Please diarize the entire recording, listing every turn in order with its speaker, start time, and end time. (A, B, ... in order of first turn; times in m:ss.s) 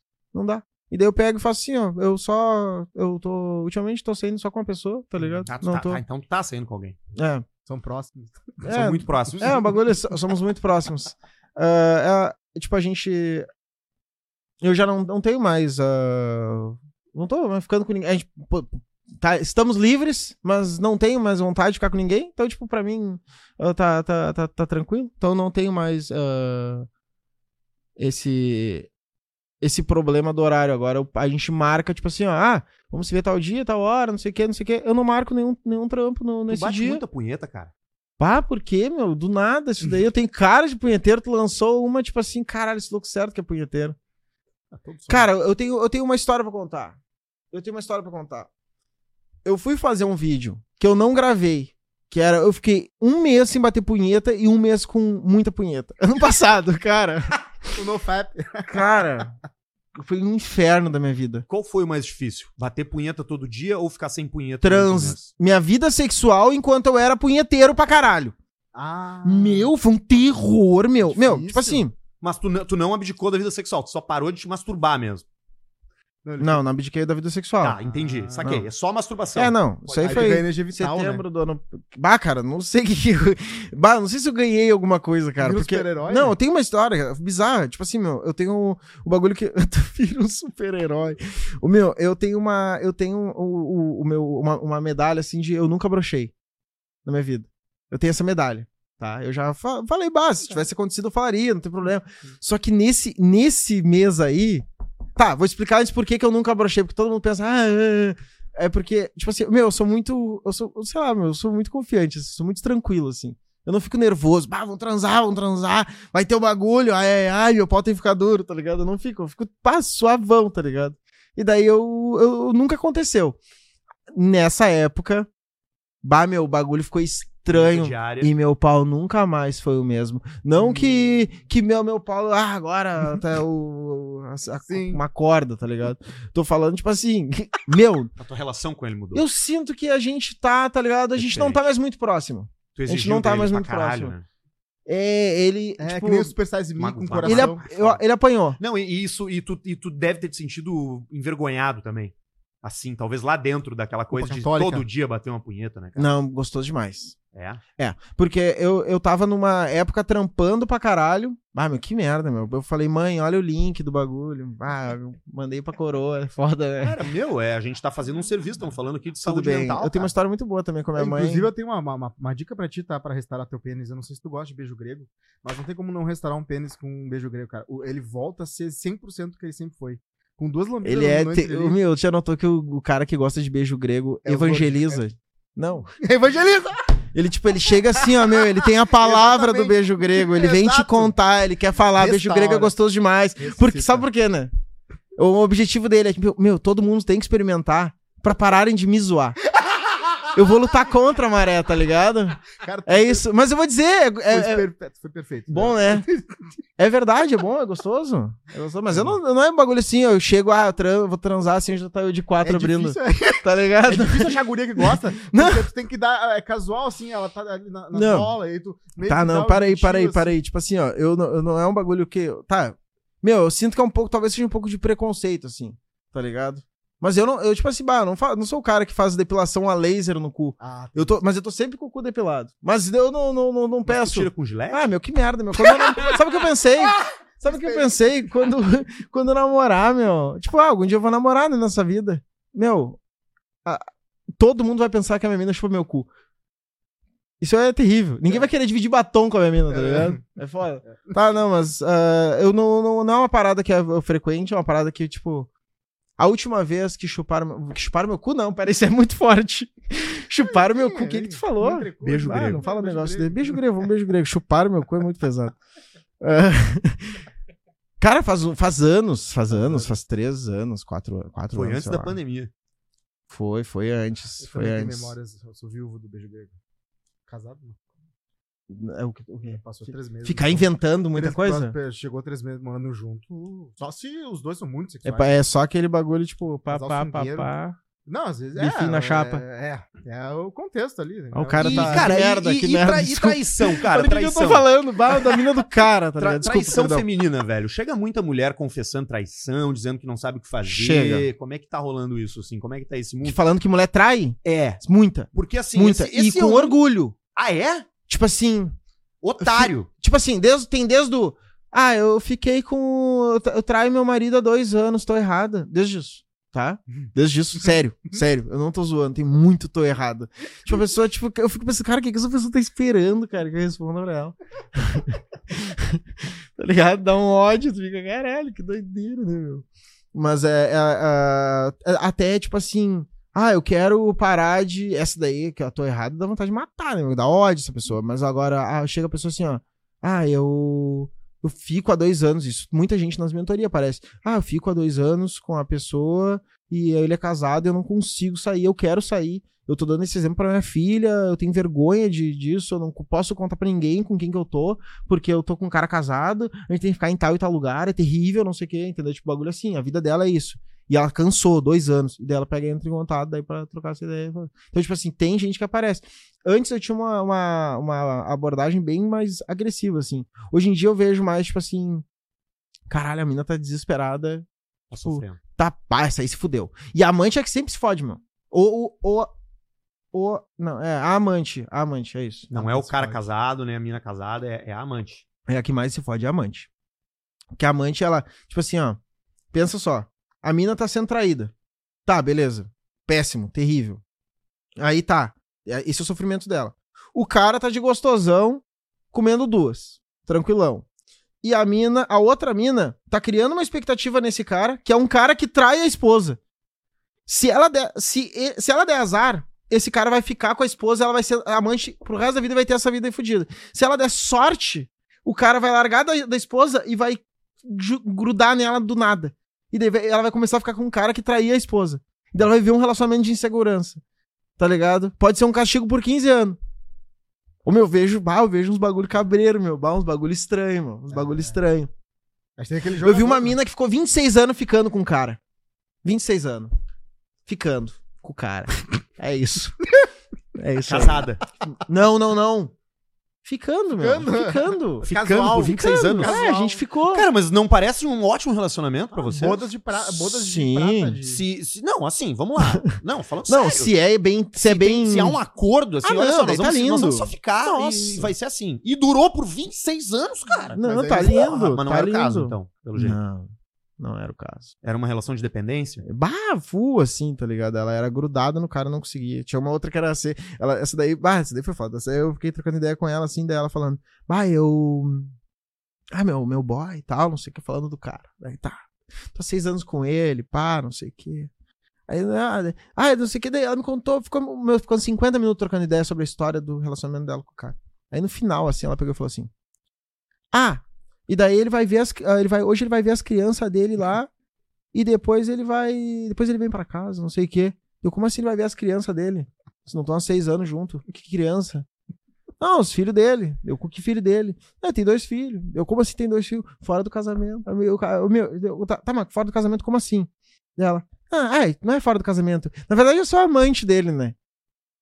0:00.3-0:06.0 A
0:05.2-0:05.5 B
0:05.5-0:07.0 C
0:07.1-0:07.4 A
0:07.7-0:08.8 B
0:08.6-0:13.5 A
0:08.7-0:09.7 C
0:14.6-0:26.9 A
0:28.0-0:28.9 A
0:29.6-0:37.0 A
0:36.5-0:37.7 C
0:38.2-0:44.0 A
0:44.7-0:45.3 C
0:45.1-0:47.0 A
0:47.5-0:48.5 A
0:49.4-0:57.3 A
0:57.7-0:59.1 B
0:58.7-0:59.3 A
0:59.9-1:01.4 A
1:01.5-1:05.3 C
1:04.6-1:08.3 A
1:08.7-1:09.7 B
1:09.2-1:12.0 A
1:11.0-1:11.8 B
1:12.2-1:15.2 C
1:16.2-1:16.6 B
1:16.4-1:17.8 A
1:17.6-1:20.4 C
1:17.8-1:18.5 B
1:18.4-1:18.6 A
1:19.4-1:36.3 A
1:20.0-1:21.2 B
1:25.4-1:26.3 B
1:37.0-1:44.6 A
1:45.2-2:03.4 A
2:04.1-2:05.3 A
2:06.0-2:18.1 A
2:07.5-2:08.3 C
2:10.5-2:11.2 B
2:14.7-2:15.0 B
2:18.2-2:19.2 C
2:19.1-2:24.1 A
2:21.2-2:21.6 C
2:22.7-2:24.2 C
2:24.9-2:26.3 A
2:25.8-2:27.6 B
2:26.8-2:28.0 C
2:27.2-2:28.6 A
2:28.6-2:36.1 C
2:34.1-2:34.8 B
2:36.0-2:37.2 A
2:37.3-2:37.6 C
2:37.8-2:47.0 A
2:46.8-2:50.1 C
2:49.2-2:51.5 A
2:51.0-3:01.8 B
3:00.8-3:05.9 A
3:04.2-3:05.0 B
3:06.0-3:07.0 B
3:07.1-3:14.5 A
3:08.0-3:11.1 B
3:12.0-3:12.7 B
3:13.4-3:14.0 B
3:15.2-3:19.4 A
3:20.3-3:24.6 A
3:22.6-3:23.2 B
3:24.3-3:26.4 B
3:25.5-3:26.0 A
3:26.8-3:35.7 A
3:28.9-3:29.2 B
3:32.4-3:40.4 B
3:37.9-3:38.3 A
3:39.0-4:03.0 A
3:50.6-3:51.2 B
3:53.8-3:54.9 C
3:55.6-3:56.2 B
3:57.4-3:58.3 B
4:04.4-4:06.1 A
4:07.4-4:15.5 A
4:09.7-4:10.2 B
4:16.2-4:25.6 A
4:20.5-4:23.6 B
4:22.0-4:22.6 C
4:26.2-4:27.2 A
4:28.0-4:32.2 A
4:29.5-4:29.9 B
4:31.5-4:32.5 C
4:33.3-4:35.1 A
4:34.4-4:36.5 B
4:37.3-4:37.8 B
4:38.7-4:41.7 A
4:39.4-4:45.3 B
4:45.0-4:47.8 A
4:46.7-4:47.5 B
4:48.1-4:52.2 B
4:48.6-4:49.4 A
4:51.3-4:57.0 A
4:51.6-4:54.7 C
4:56.2-5:03.4 C
5:00.6-5:01.3 A
5:03.2-5:07.2 A
5:04.4-5:04.8 C
5:05.3-5:06.8 C
5:07.3-5:07.9 C
5:08.1-5:08.8 A
5:09.2-5:09.9 C
5:09.4-6:12.0 A
6:12.9-6:14.5 A
6:14.9-6:15.4 C
6:15.0-6:19.3 A
6:20.1-6:22.5 A
6:22.5-6:25.2 C
6:22.5-6:23.2 B
6:25.5-6:26.7 A
6:27.5-6:29.0 A
6:29.5-6:31.5 A
6:32.0-6:34.0 A
6:34.8-6:40.8 A
6:41.4-6:46.4 A
6:47.3-7:04.0 A
7:04.6-7:06.6 A
7:07.6-7:11.9 A
7:11.1-7:11.6 B
7:12.6-7:13.6 B
7:13.0-7:15.4 A
7:16.0-7:16.7 A
7:17.4-7:19.8 A
7:20.6-7:22.7 A
7:20.8-7:21.4 C
7:23.4-7:25.1 A
7:24.0-7:26.8 B
7:25.0-7:26.3 C
7:25.8-7:27.2 A
7:27.1-7:29.6 C
7:29.1-7:31.4 B
7:29.9-7:31.2 A
7:31.2-7:33.9 C
7:33.5-7:35.4 A
7:34.6-7:43.2 C
7:36.0-7:38.3 A
7:40.7-7:44.7 A
7:40.8-7:41.8 B
7:44.8-7:46.0 C
7:46.0-7:55.3 A
7:56.1-8:01.5 A
8:02.1-8:09.5 A
8:10.5-8:14.3 A
8:14.9-8:21.8 A
8:22.6-8:34.3 A